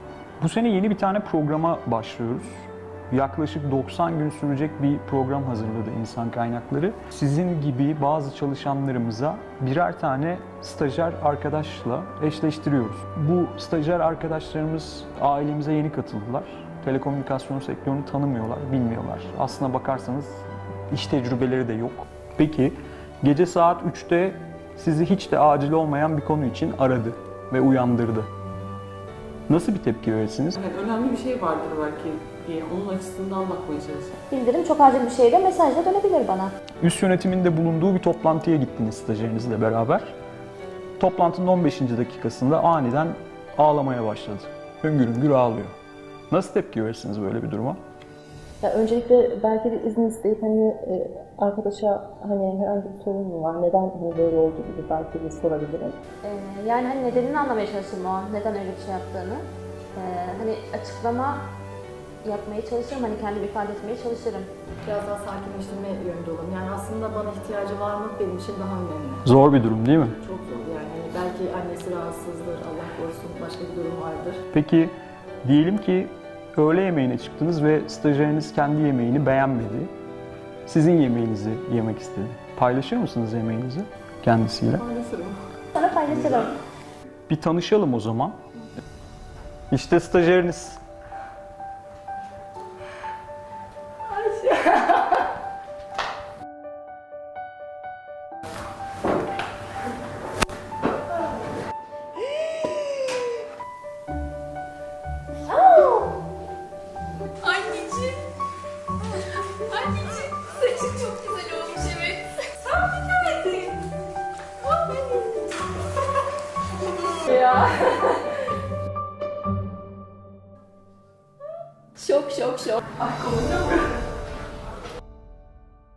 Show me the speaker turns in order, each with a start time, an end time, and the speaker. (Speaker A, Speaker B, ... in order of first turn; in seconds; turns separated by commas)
Speaker A: 0.4-2.6, Speaker A: 3.1-28.3, Speaker A: 29.5-30.6, Speaker B: 30.6-34.1, Speaker C: 34.3-36.5, Speaker A: 36.8-40.1, Speaker A: 41.0-45.7, Speaker A: 46.3-47.8, Speaker D: 48.6-56.0, Speaker C: 56.2-59.4, Speaker C: 60.0-61.4, Speaker C: 62.2-64.5, Speaker E: 64.8-69.2, Speaker A: 69.2-70.2, Speaker E: 70.2-74.4, Speaker A: 74.5-74.9, Speaker A: 75.4-79.9, Speaker A: 80.7-84.8, Speaker E: 84.8-85.4, Speaker C: 85.7-86.5, Speaker A: 87.3-88.4, Speaker A: 89.7-90.8, Speaker C: 105.5-106.1, Speaker C: 107.4-108.1, Speaker C: 109.7-113.6, Speaker C: 114.7-115.4, Speaker C: 117.2-118.1, Speaker C: 122.0-122.8, Speaker E: 123.2-123.6